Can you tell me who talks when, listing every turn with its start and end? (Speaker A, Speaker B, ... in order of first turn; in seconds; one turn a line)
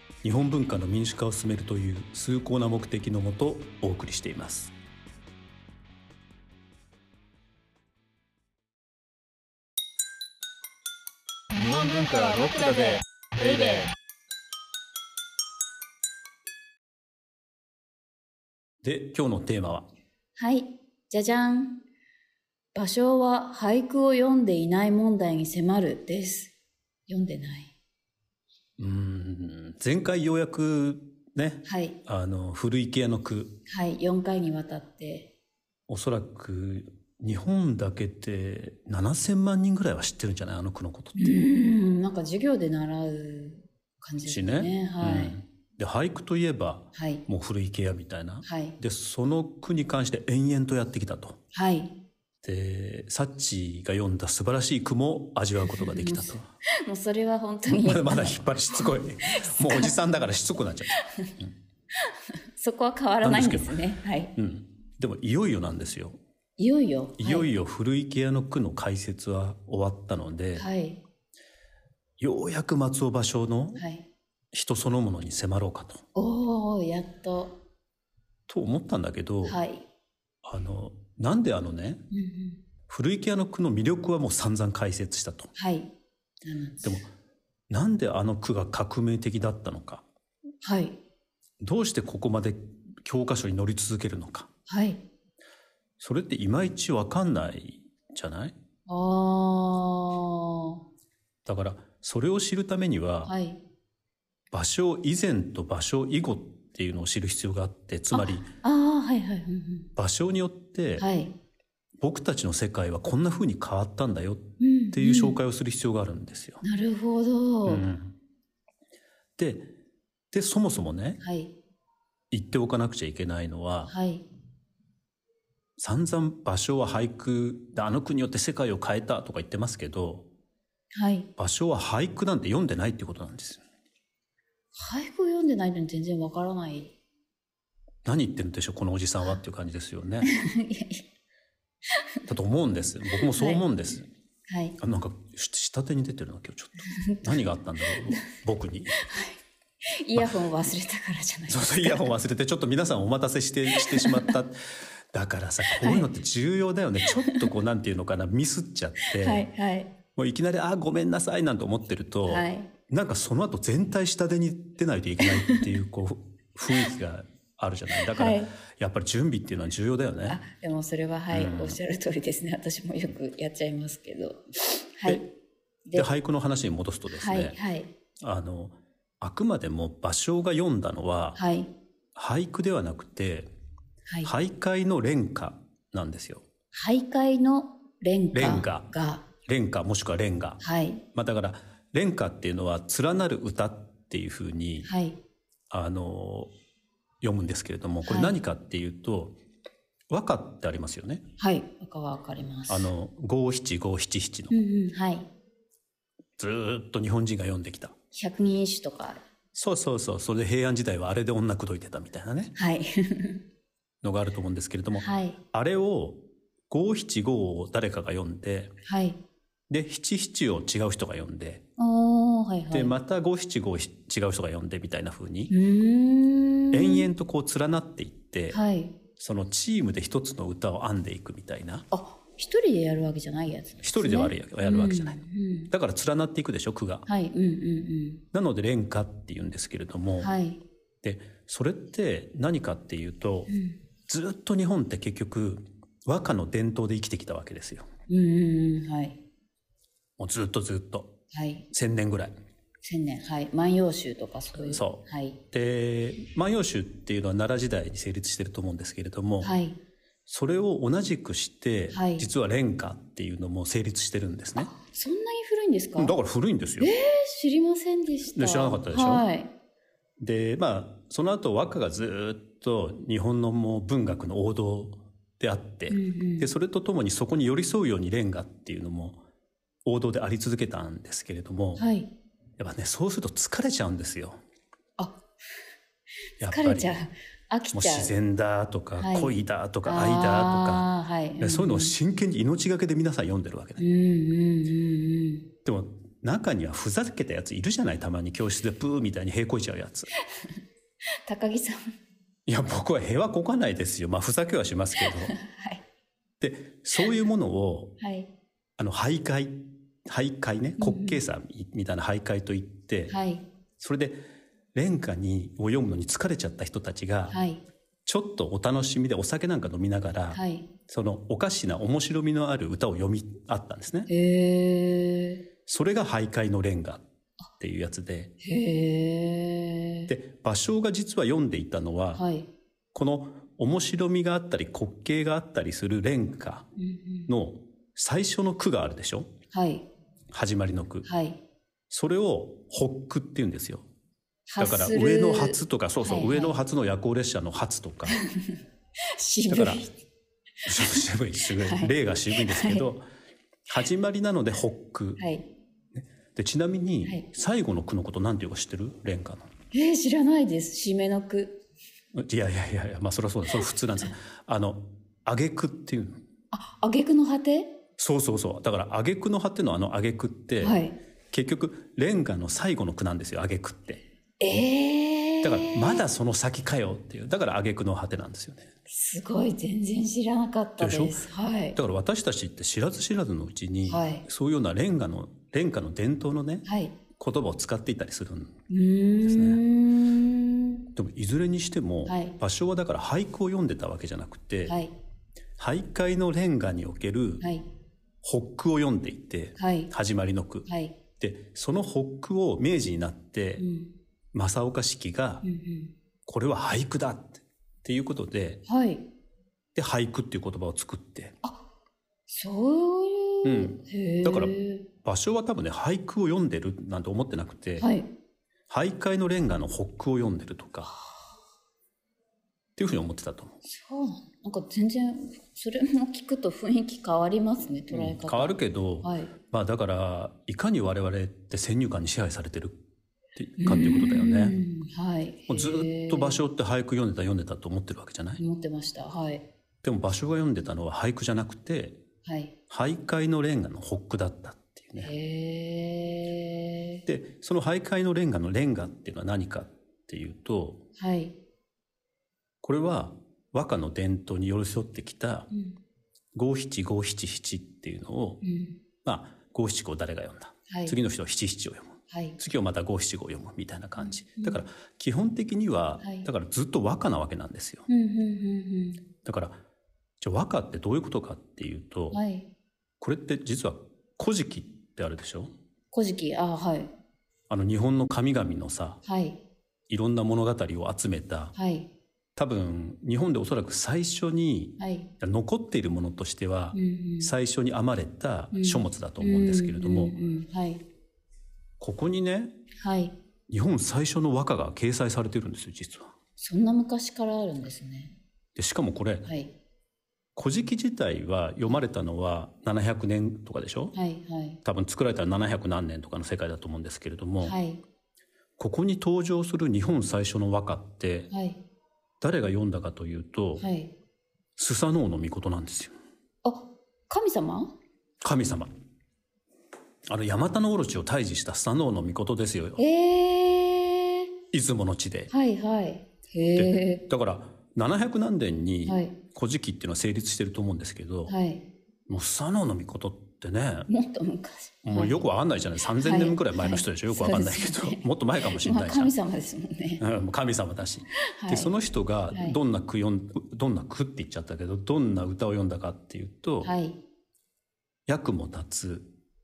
Speaker A: 0.2-4.7
Speaker B: 11.6-13.9
Speaker A: 18.8-19.9
Speaker C: 20.4-21.8
Speaker C: 22.7-26.5
Speaker C: 27.1-27.7
Speaker A: 28.8-33.6
Speaker C: 31.6-32.0
Speaker C: 33.7-35.3
Speaker A: 35.9-41.4
Speaker C: 41.1-45.4
Speaker A: 44.2-51.4
Speaker C: 46.9-47.2
Speaker C: 48.4-48.8
Speaker C: 51.5-51.9
Speaker A: 52.4-56.5
Speaker C: 55.6-59.9
Speaker A: 57.7-61.5
Speaker C: 60.9-61.3
Speaker C: 62.1-64.3
Speaker A: 63.2-63.8
Speaker A: 64.3-66.2
Speaker C: 66.6-67.5
Speaker A: 67.2-70.7
Speaker C: 70.5-71.0
Speaker A: 72.2-73.8
Speaker C: 73.8-74.0
Speaker A: 74.5-76.0
Speaker C: 76.1-77.6
Speaker A: 78.5-79.6
Speaker C: 79.5-79.8
Speaker A: 80.4-82.0
Speaker C: 82.1-82.6
Speaker A: 82.9-85.5
Speaker C: 85.5-87.0
Speaker A: 86.8-87.1
Speaker A: 87.7-90.0
Speaker C: 90.6-91.0
Speaker A: 91.6-94.5
Speaker C: 94.7-95.0
Speaker A: 96.0-98.5
Speaker C: 98.9-100.8
Speaker A: 101.5-103.3
Speaker C: 103.2-103.6
Speaker A: 104.5-108.5
Speaker C: 108.1-109.9
Speaker A: 110.0-111.0
Speaker C: 111.0-111.3
Speaker A: 112.0-116.6
Speaker C: 114.6-115.4
Speaker C: 116.6-117.9
Speaker A: 117.7-118.1
Speaker A: 119.4-119.7
Speaker A: 120.3-121.2
Speaker C: 121.2-121.5
Speaker A: 122.3-123.9
Speaker C: 123.8-124.3
Speaker A: 125.8-130.3
Speaker C: 130.9-131.3
Speaker A: 131.4-133.6
Speaker C: 134.7-136.9
Speaker A: 138.0-140.3
Speaker C: 140.2-141.0
Speaker A: 142.3-144.1
Speaker C: 143.1-143.7
Speaker C: 144.5-144.8
Speaker A: 144.8-149.0
Speaker C: 146.8-147.3
Speaker C: 147.9-148.3
Speaker C: 148.9-149.4
Speaker C: 149.9-152.1
Speaker A: 150.1-150.4
Speaker A: 151.5-154.6
Speaker C: 153.7-154.4
Speaker A: 155.1-159.5
Speaker C: 155.7-156.1
Speaker C: 157.1-157.5
Speaker C: 159.0-159.9
Speaker A: 160.2-170.4
Speaker C: 162.2-162.7
Speaker C: 165.2-165.7
Speaker C: 168.0-168.5
Speaker C: 170.2-175.3
Speaker A: 171.3-171.8
Speaker C: 175.9-176.1
Speaker A: 175.9-177.6
Speaker C: 177.1-177.9
Speaker A: 178.2-181.4
Speaker C: 181.3-181.7
Speaker A: 182.1-183.5
Speaker C: 184.1-184.3
Speaker A: 184.2-186.4
Speaker C: 186.7-189.3
Speaker A: 188.3-188.9
Speaker A: 189.4-190.6
Speaker C: 190.6-191.0
Speaker A: 191.1-194.9
Speaker C: 194.8-195.2
Speaker A: 195.7-196.5
Speaker A: 197.2-199.4
Speaker C: 198.0-198.4
Speaker A: 200.1-201.2
Speaker C: 201.4-202.9
Speaker A: 202.7-204.5
Speaker C: 204.5-205.3
Speaker A: 206.4-207.9
Speaker C: 208.1-209.2
Speaker A: 209.5-212.5
Speaker C: 212.6-213.4
Speaker A: 214.0-218.7
Speaker C: 214.9-215.4
Speaker C: 218.8-219.2
Speaker A: 219.7-221.6
Speaker C: 221.8-222.9
Speaker A: 222.7-225.5
Speaker C: 225.5-227.1
Speaker A: 226.7-228.6
Speaker C: 228.5-229.0
Speaker A: 229.2-231.9
Speaker C: 231.9-235.7
Speaker A: 233.8-237.1
Speaker C: 237.1-238.2
Speaker A: 238.3-240.3
Speaker C: 240.2-240.6
Speaker A: 241.0-243.5
Speaker C: 243.5-243.8
Speaker A: 244.1-247.9
Speaker C: 248.1-249.2
Speaker A: 250.2-251.1
Speaker C: 251.3-251.7
Speaker A: 251.7-252.3
Speaker C: 252.8-255.4
Speaker A: 254.5-259.5
Speaker C: 259.4-259.8
Speaker A: 260.3-264.7
Speaker C: 261.9-262.3
Speaker C: 264.6-266.1
Speaker A: 265.9-266.9
Speaker C: 266.8-269.5
Speaker A: 268.2-269.3
Speaker A: 270.2-279.2
Speaker C: 275.9-276.5
Speaker A: 279.8-281.9
Speaker C: 281.8-282.1
Speaker A: 282.6-284.4
Speaker C: 285.0-285.2
Speaker A: 286.4-286.9
Speaker C: 286.4-288.1
Speaker A: 287.7-290.9
Speaker C: 289.0-291.9
Speaker A: 291.4-293.8
Speaker C: 293.8-295.5
Speaker A: 295.6-300.1
Speaker C: 301.2-301.8
Speaker A: 302.5-305.3
Speaker C: 305.0-305.8
Speaker A: 306.4-307.9
Speaker C: 308.0-308.3
Speaker A: 308.8-313.1
Speaker C: 310.8-311.2
Speaker C: 313.1-313.4
Speaker A: 313.8-314.2
Speaker A: 314.7-317.4
Speaker C: 317.3-317.6
Speaker A: 318.1-324.1
Speaker C: 320.3-320.7
Speaker C: 324.1-325.4
Speaker A: 325.7-327.0
Speaker A: 327.6-328.3
Speaker C: 328.4-330.1
Speaker A: 330.1-332.2
Speaker C: 332.1-332.5
Speaker A: 332.9-336.7
Speaker C: 336.8-337.3
Speaker A: 337.3-339.3
Speaker C: 339.5-339.9
Speaker A: 340.3-341.1
Speaker C: 341.0-341.4
Speaker A: 341.9-343.9
Speaker C: 344.5-346.6
Speaker A: 344.6-348.2
Speaker C: 348.1-348.5
Speaker C: 349.1-349.9
Speaker A: 349.5-349.9
Speaker A: 350.6-353.0
Speaker C: 350.7-352.9
Speaker A: 353.7-355.2
Speaker C: 355.2-355.5
Speaker A: 355.9-359.5
Speaker C: 359.7-361.6
Speaker A: 362.1-366.2
Speaker C: 366.5-367.8
Speaker A: 368.0-370.8
Speaker C: 370.6-371.0
Speaker A: 371.3-374.0
Speaker C: 374.4-376.0
Speaker A: 375.4-378.7
Speaker C: 378.9-381.8
Speaker A: 380.8-386.6
Speaker C: 383.9-384.2
Speaker C: 386.6-387.0
Speaker A: 387.2-388.6
Speaker C: 388.7-390.9
Speaker A: 389.2-389.6
Speaker A: 390.9-394.8
Speaker C: 392.1-392.4
Speaker C: 394.6-394.9
Speaker A: 395.6-397.5
Speaker C: 397.4-397.6
Speaker A: 398.2-403.6
Speaker C: 399.6-399.9
Speaker C: 400.7-401.0
Speaker C: 403.6-403.9
Speaker A: 404.3-405.4
Speaker C: 405.4-405.9
Speaker A: 406.2-408.6
Speaker C: 408.6-409.1
Speaker A: 409.7-411.3
Speaker C: 412.3-414.9
Speaker A: 413.4-417.9
Speaker C: 417.8-418.1
Speaker A: 418.7-420.9
Speaker C: 420.9-421.2
Speaker A: 422.8-423.6
Speaker C: 423.6-429.3
Speaker A: 427.9-432.8
Speaker A: 433.4-434.6
Speaker C: 433.6-436.4
Speaker A: 435.5-438.4
Speaker C: 438.4-439.4
Speaker A: 439.8-442.0
Speaker C: 442.2-442.5
Speaker A: 442.7-445.1
Speaker C: 445.0-447.0
Speaker A: 447.1-450.8
Speaker C: 450.9-451.4
Speaker A: 452.6-455.5
Speaker C: 455.5-455.8
Speaker A: 456.3-458.4
Speaker C: 458.4-458.8
Speaker A: 459.0-467.9
Speaker C: 460.7-461.0
Speaker C: 462.1-462.4
Speaker C: 464.0-464.6
Speaker C: 466.0-466.3
Speaker C: 467.9-469.0
Speaker A: 469.2-469.6
Speaker A: 470.2-472.2
Speaker C: 472.1-472.5
Speaker A: 473.0-475.5
Speaker C: 475.9-476.9
Speaker A: 477.5-479.0
Speaker C: 479.0-479.4
Speaker A: 479.9-481.5
Speaker C: 481.5-481.9
Speaker A: 482.4-490.1
Speaker C: 484.8-485.1
Speaker C: 486.7-487.3
Speaker C: 488.5-490.8
Speaker A: 491.8-492.6
Speaker C: 492.8-493.1
Speaker A: 493.5-496.1
Speaker C: 496.4-498.2
Speaker A: 498.6-499.3
Speaker C: 499.2-499.5
Speaker A: 500.4-503.9
Speaker C: 503.9-504.6
Speaker A: 504.6-507.6
Speaker C: 507.4-507.8
Speaker A: 508.6-511.3
Speaker C: 511.3-511.6
Speaker A: 512.2-513.6
Speaker C: 513.6-513.9
Speaker A: 514.6-515.9
Speaker C: 516.4-517.7
Speaker A: 518.2-518.7
Speaker A: 520.1-522.8
Speaker C: 522.8-524.3
Speaker A: 524.5-525.3
Speaker C: 525.3-527.0
Speaker A: 526.5-531.3
Speaker C: 528.9-529.2
Speaker C: 531.3-531.7
Speaker A: 532.1-533.9
Speaker C: 533.9-535.2
Speaker A: 534.8-539.1
Speaker C: 535.9-540.0
Speaker A: 540.0-546.7
Speaker C: 541.3-541.7
Speaker C: 542.3-542.6
Speaker C: 546.6-547.0
Speaker A: 548.1-549.1